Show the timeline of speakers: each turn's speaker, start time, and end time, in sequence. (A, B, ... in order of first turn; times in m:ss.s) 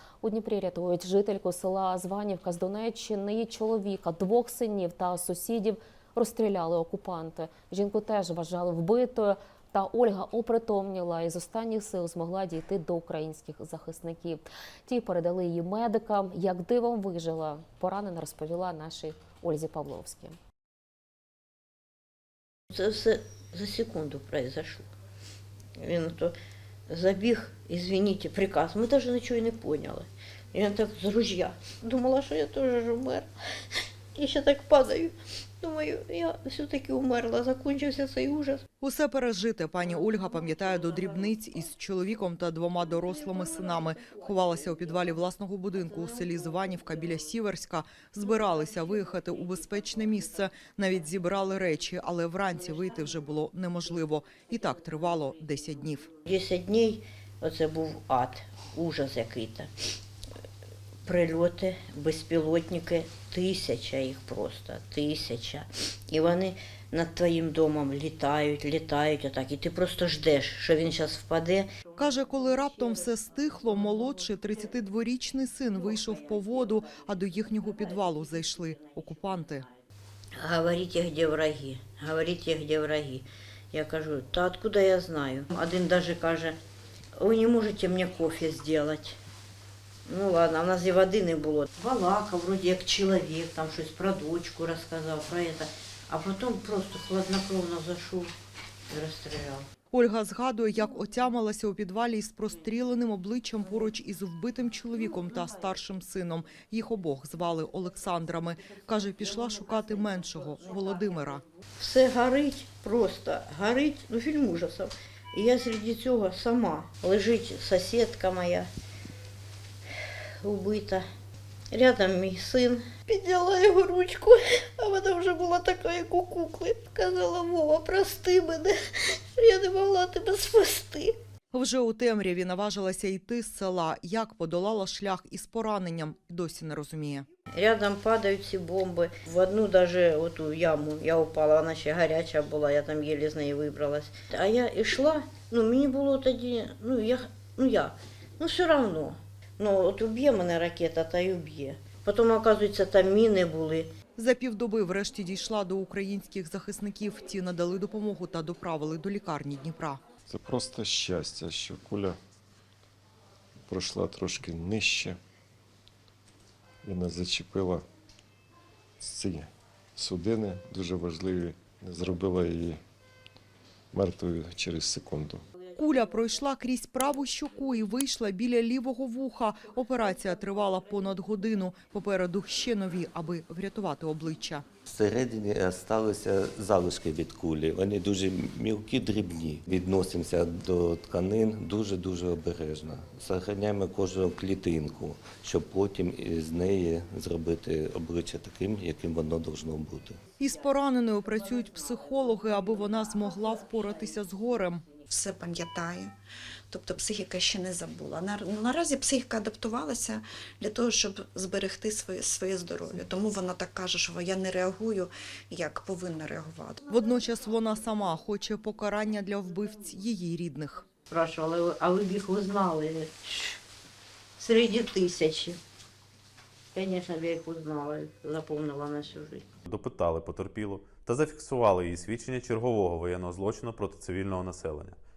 0:00.2-0:20.4 A
0:22.7-0:24.9 B
0:25.8-0:26.3 B
0:26.9-0:33.3 B
0:34.1-0:38.6 B
0:38.8-0:56.1 C
0:56.3-0:59.7 B
1:01.0-1:11.7 B
1:12.0-1:19.7 C
1:20.4-1:26.6 B
1:27.2-1:29.2 B
1:30.1-1:38.3 B
1:38.9-1:39.7 B
1:39.9-1:51.4 C
1:51.8-1:58.7 B
2:00.4-2:01.0 B
2:01.7-2:11.1 B
2:11.5-2:17.2 C
2:17.5-2:33.9 B
2:34.2-2:40.0 C
2:40.2-2:42.2 D
2:43.7-2:45.2 D
2:46.8-2:47.8 D
2:49.0-2:52.8 D
2:53.9-2:55.4 D
2:55.8-3:04.7 C
3:04.8-3:20.2 E
3:20.4-3:24.9 C
3:25.1-3:26.1 F
3:26.7-3:36.8 F
3:36.9-3:40.8 C
3:41.1-3:43.6 B
3:44.4-3:45.6 B
3:46.7-3:49.5 B
3:49.7-3:55.0 G